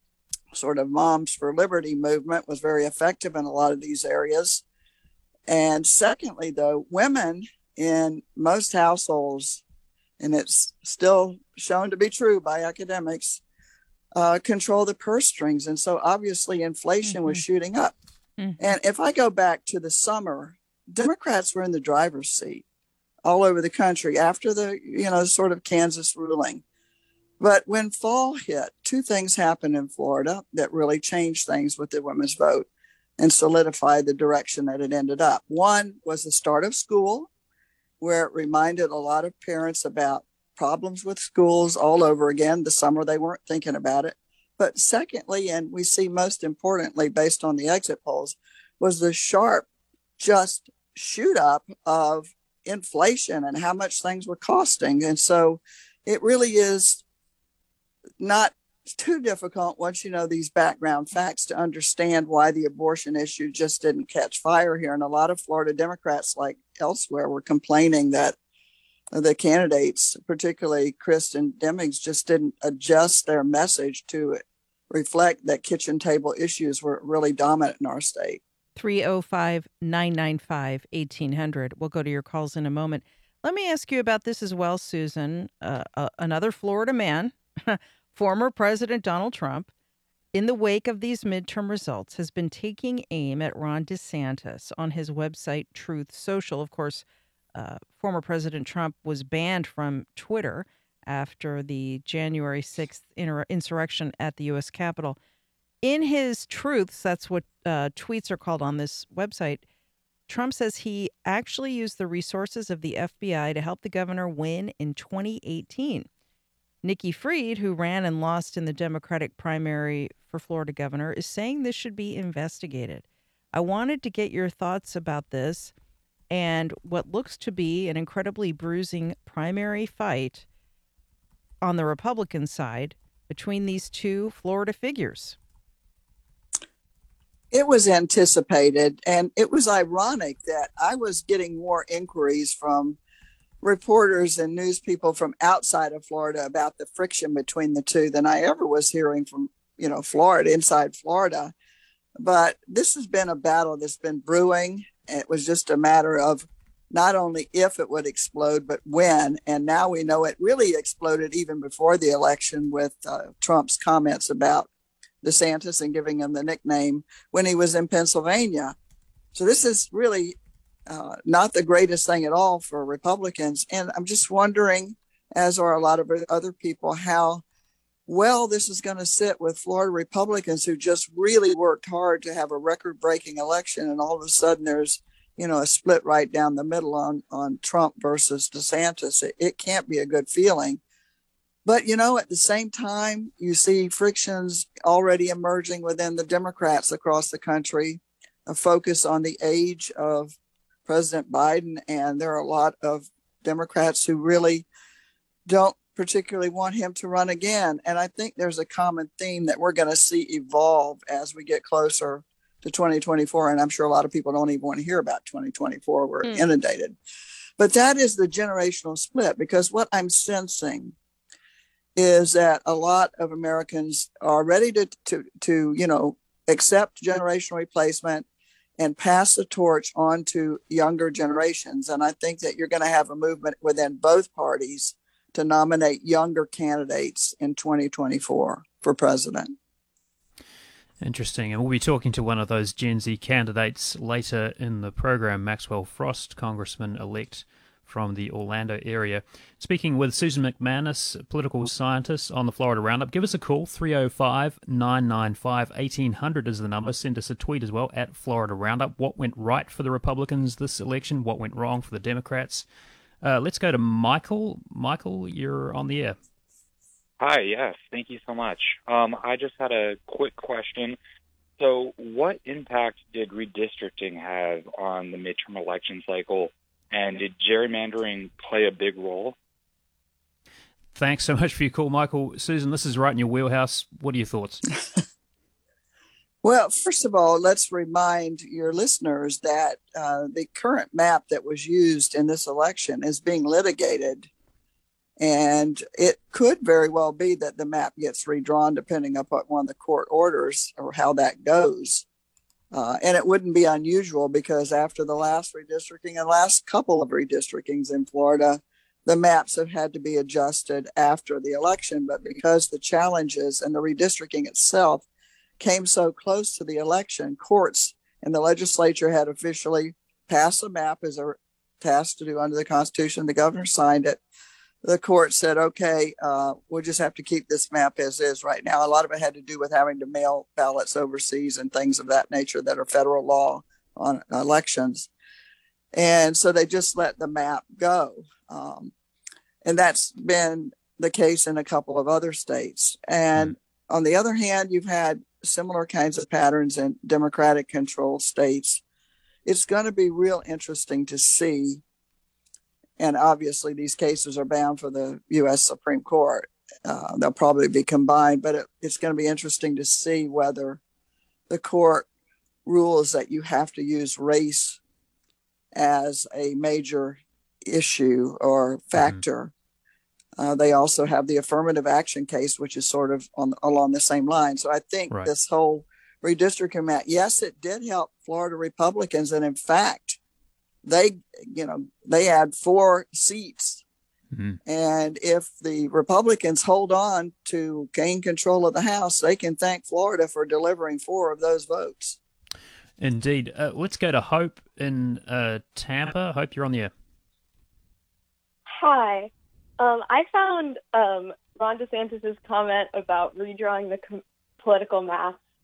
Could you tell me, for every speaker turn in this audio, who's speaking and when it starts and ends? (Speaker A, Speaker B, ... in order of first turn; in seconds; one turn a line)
Speaker A: 0.5-4.6
Speaker A: 5.5-9.6
Speaker A: 10.2-13.4
Speaker A: 14.1-17.9
Speaker B: 17.1-17.4
Speaker B: 18.4-18.7
Speaker A: 18.6-22.6
Speaker A: 23.2-26.6
Speaker A: 27.4-32.7
Speaker A: 33.2-37.3
Speaker A: 38.0-49.7
Speaker A: 50.2-57.0
Speaker A: 58.2-68.3
Speaker A: 69.1-78.4
Speaker B: 78.8-89.7
Speaker B: 90.3-97.0
Speaker B: 97.5-105.2
Speaker B: 105.8-109.6
Speaker B: 110.3-116.1
Speaker B: 116.8-125.7
Speaker B: 126.3-130.4
Speaker B: 131.6-135.4
Speaker A: 137.5-143.0
Speaker A: 143.6-151.5
Speaker A: 152.2-164.7
Speaker A: 165.2-168.7
Speaker A: 169.3-170.3
Speaker A: 170.9-177.4
Speaker A: 178.1-190.8
Speaker A: 191.6-200.3
Speaker A: 200.8-204.7
Speaker A: 205.5-217.0
Speaker B: 216.2-216.5
Speaker A: 217.6-220.9
Speaker A: 221.9-228.2
Speaker A: 228.8-239.5
Speaker C: 241.0-262.6
Speaker C: 263.2-266.1
Speaker D: 267.2-271.0
Speaker D: 271.6-279.4
Speaker C: 280.9-284.7
Speaker A: 286.4-294.3
Speaker A: 295.2-302.0
Speaker A: 302.7-315.0
Speaker A: 315.6-324.2
Speaker A: 324.8-335.1
Speaker A: 335.9-338.9
Speaker A: 339.6-348.8
Speaker A: 349.4-351.8
Speaker A: 353.0-360.8
Speaker A: 361.5-362.1
Speaker A: 362.6-364.8
Speaker A: 365.7-369.5
Speaker C: 368.9-369.2
Speaker A: 370.4-380.2
Speaker A: 380.8-383.8
Speaker C: 384.3-384.6
Speaker A: 384.6-392.2
Speaker C: 393.0-396.9
Speaker E: 398.7-405.4